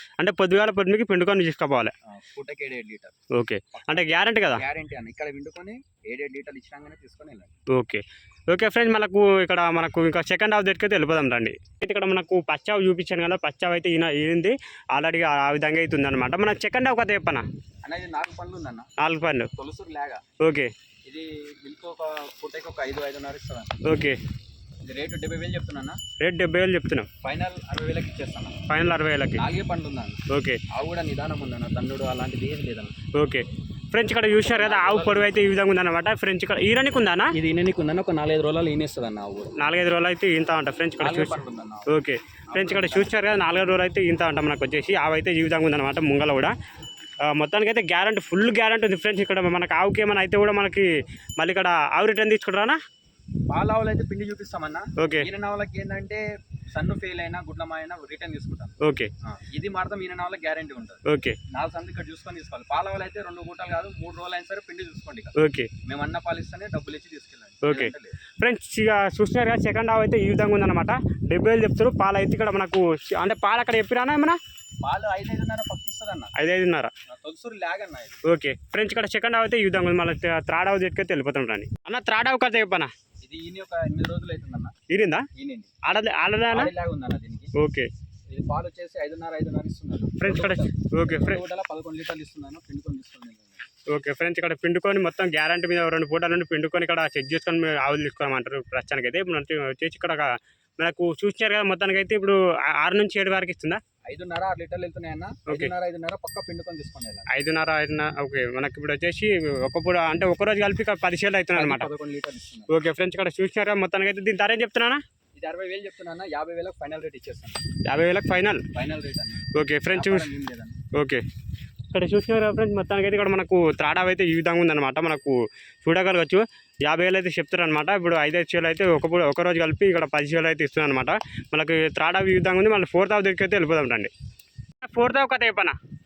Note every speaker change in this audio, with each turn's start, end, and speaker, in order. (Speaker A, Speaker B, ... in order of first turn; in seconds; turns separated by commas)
Speaker A: 0.2-1.9, Speaker B: 2.1-3.1, Speaker A: 3.3-4.6, Speaker B: 3.7-7.5, Speaker A: 7.8-17.4, Speaker B: 17.8-18.9, Speaker A: 19.0-19.5, Speaker B: 19.6-20.2, Speaker A: 20.4-20.7, Speaker B: 21.1-23.8, Speaker A: 23.8-24.2, Speaker B: 24.8-26.0, Speaker A: 26.2-27.1, Speaker B: 27.2-28.6, Speaker A: 28.7-29.4, Speaker B: 29.4-30.2, Speaker A: 30.3-30.6, Speaker B: 30.7-32.9, Speaker A: 33.1-37.3, Speaker B: 34.4-35.5, Speaker B: 37.3-39.5, Speaker A: 39.6-46.5, Speaker B: 41.0-41.9, Speaker B: 42.5-43.4, Speaker A: 47.3-50.9, Speaker A: 51.4-52.8, Speaker B: 53.5-58.8, Speaker A: 55.0-55.3, Speaker A: 58.8-59.1, Speaker B: 59.2-65.3, Speaker A: 61.0-61.4, Speaker A: 65.3-65.7, Speaker B: 65.8-68.2, Speaker A: 67.6-74.4, Speaker B: 74.8-76.3, Speaker A: 76.3-76.9, Speaker B: 77.1-78.2, Speaker A: 78.2-82.9, Speaker B: 83.2-84.7, Speaker A: 84.9-85.3, Speaker B: 85.3-85.7, Speaker A: 85.8-86.7, Speaker B: 86.5-87.5, Speaker A: 87.6-87.9, Speaker B: 88.3-93.6, Speaker A: 90.2-91.4, Speaker A: 93.9-103.8, Speaker B: 104.1-107.3, Speaker A: 107.3-111.9, Speaker B: 111.5-112.7, Speaker A: 112.7-115.0, Speaker B: 115.4-117.6, Speaker A: 117.8-118.6, Speaker B: 118.7-120.8, Speaker A: 119.5-120.3, Speaker A: 120.9-121.2, Speaker A: 121.9-134.1, Speaker A: 134.8-135.8